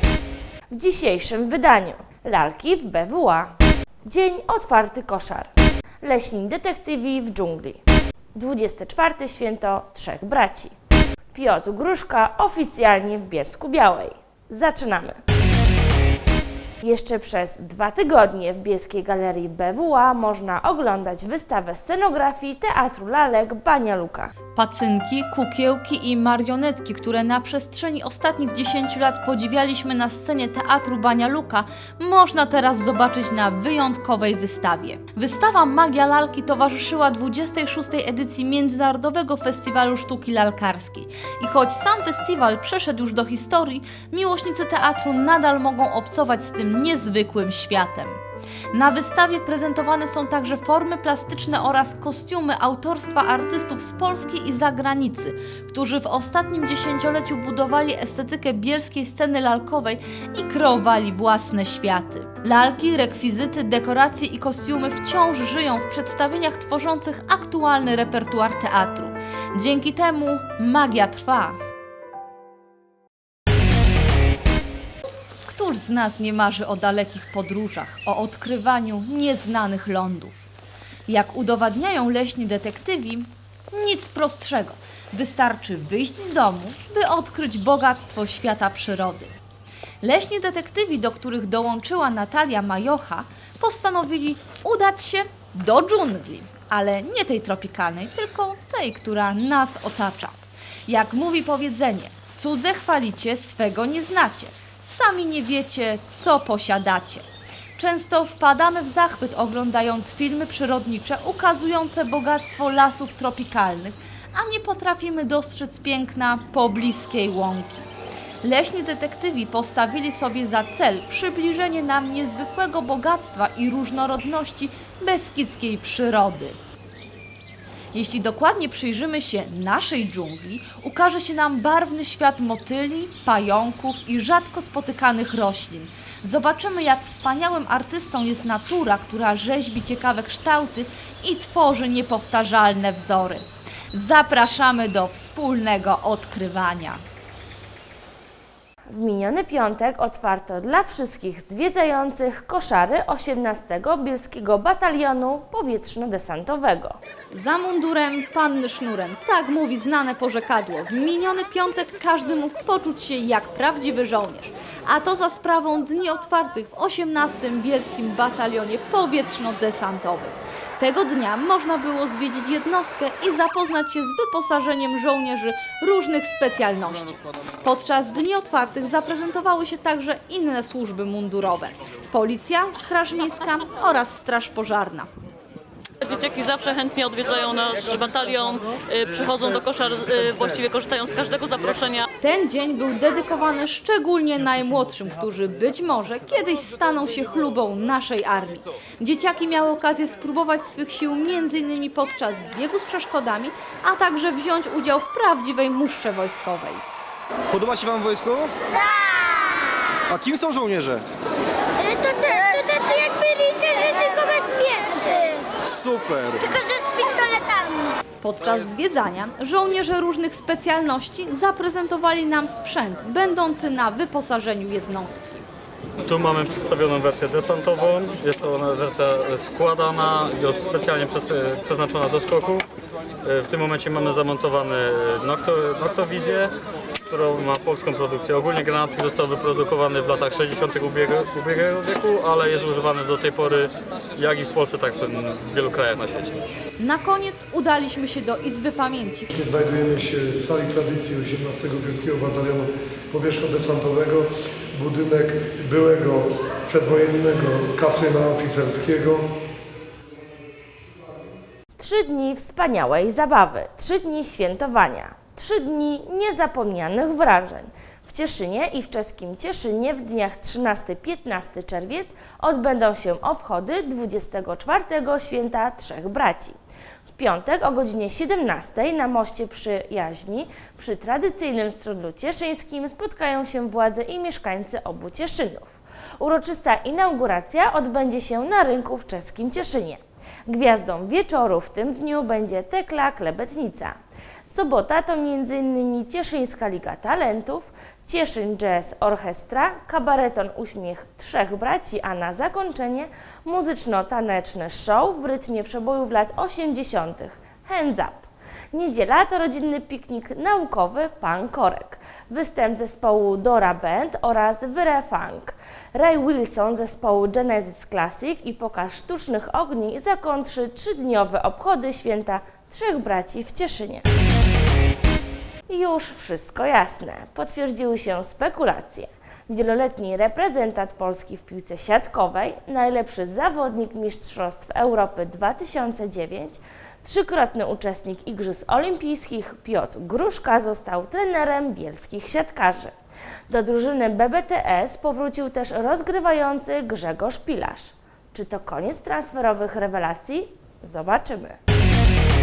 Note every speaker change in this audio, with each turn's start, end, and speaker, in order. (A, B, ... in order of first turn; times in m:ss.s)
0:00.7-0:03.5 A
0:04.0-0:05.5 A
0:06.0-0:07.8 A
0:08.3-0:10.7 A
0:11.3-0:15.2 A
0:16.8-0:24.3 A
0:24.5-0:48.2 B
0:48.7-1:11.6 B
1:15.4-1:20.4 B
1:21.1-1:29.3 B
1:30.0-1:40.3 B
1:40.8-1:47.2 B
1:47.8-1:57.9 B
1:58.4-2:06.6 B
2:07.9-2:27.0 B
2:28.9-2:37.0 A
2:37.3-3:05.1 B
3:06.0-3:12.0 C
3:12.2-3:26.8 B
3:27.5-3:28.5 D
3:30.1-3:31.0 D
3:31.8-3:35.4 E
3:35.6-3:36.6 D
3:36.5-3:37.8 E
3:38.2-3:45.4 B
3:46.0-3:52.6 F
3:53.2-3:56.5 F
3:57.0-4:06.3 F
4:06.8-4:09.3 B
4:09.3-4:19.3 G
4:21.8-4:36.6 A
4:37.1-4:53.9 A
4:54.5-5:24.1 A
5:25.7-5:42.9 A
5:43.5-5:51.6 A